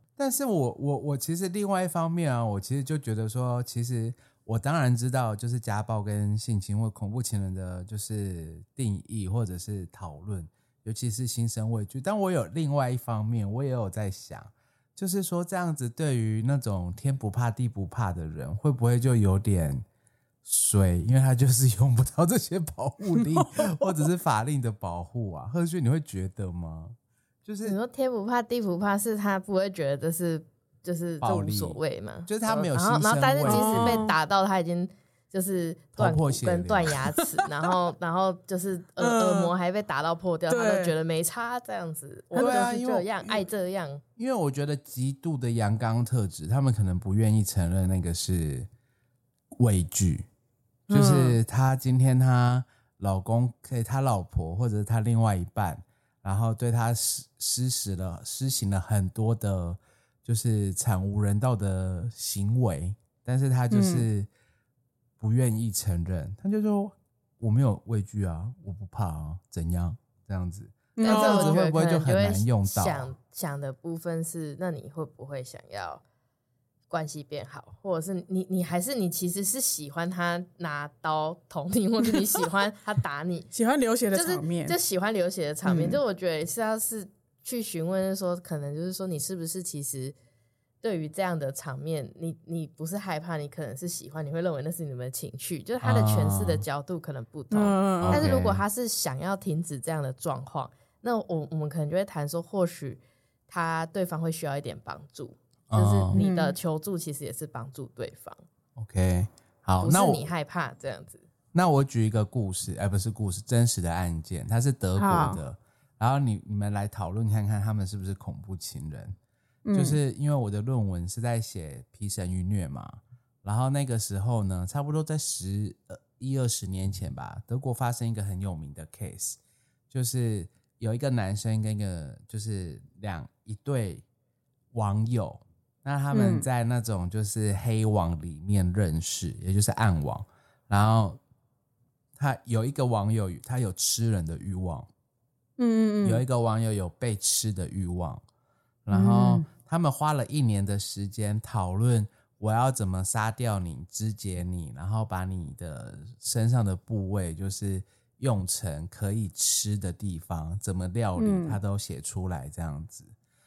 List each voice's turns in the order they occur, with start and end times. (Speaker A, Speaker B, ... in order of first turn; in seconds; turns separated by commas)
Speaker A: 0.2-19.8, Speaker A: 20.4-27.8, Speaker B: 23.1-23.4, Speaker C: 27.6-44.0, Speaker A: 31.2-34.1, Speaker B: 33.4-34.1, Speaker A: 36.0-37.0, Speaker B: 39.0-39.5, Speaker B: 40.5-40.9, Speaker B: 42.3-42.8, Speaker A: 42.4-43.1, Speaker A: 44.2-48.7, Speaker A: 49.5-50.3, Speaker B: 50.9-51.4, Speaker A: 50.9-64.3, Speaker B: 63.7-64.0, Speaker A: 65.2-73.1, Speaker B: 71.0-71.6, Speaker C: 71.0-76.0, Speaker C: 76.9-83.5, Speaker B: 83.5-84.8, Speaker C: 84.1-90.1, Speaker B: 85.6-86.0, Speaker C: 90.8-108.4, Speaker A: 95.8-96.6, Speaker B: 97.5-98.3, Speaker A: 98.0-98.6, Speaker A: 105.7-106.2, Speaker B: 106.1-106.5, Speaker A: 108.8-110.3, Speaker C: 109.8-111.2, Speaker A: 111.5-119.2, Speaker B: 115.0-115.4, Speaker B: 119.7-120.0, Speaker A: 119.7-129.4, Speaker A: 129.9-134.0, Speaker A: 134.7-141.2, Speaker B: 136.1-136.4, Speaker A: 142.2-144.9, Speaker B: 145.6-146.2, Speaker A: 146.0-148.2, Speaker A: 148.8-163.1, Speaker B: 148.9-149.4, Speaker B: 161.2-161.6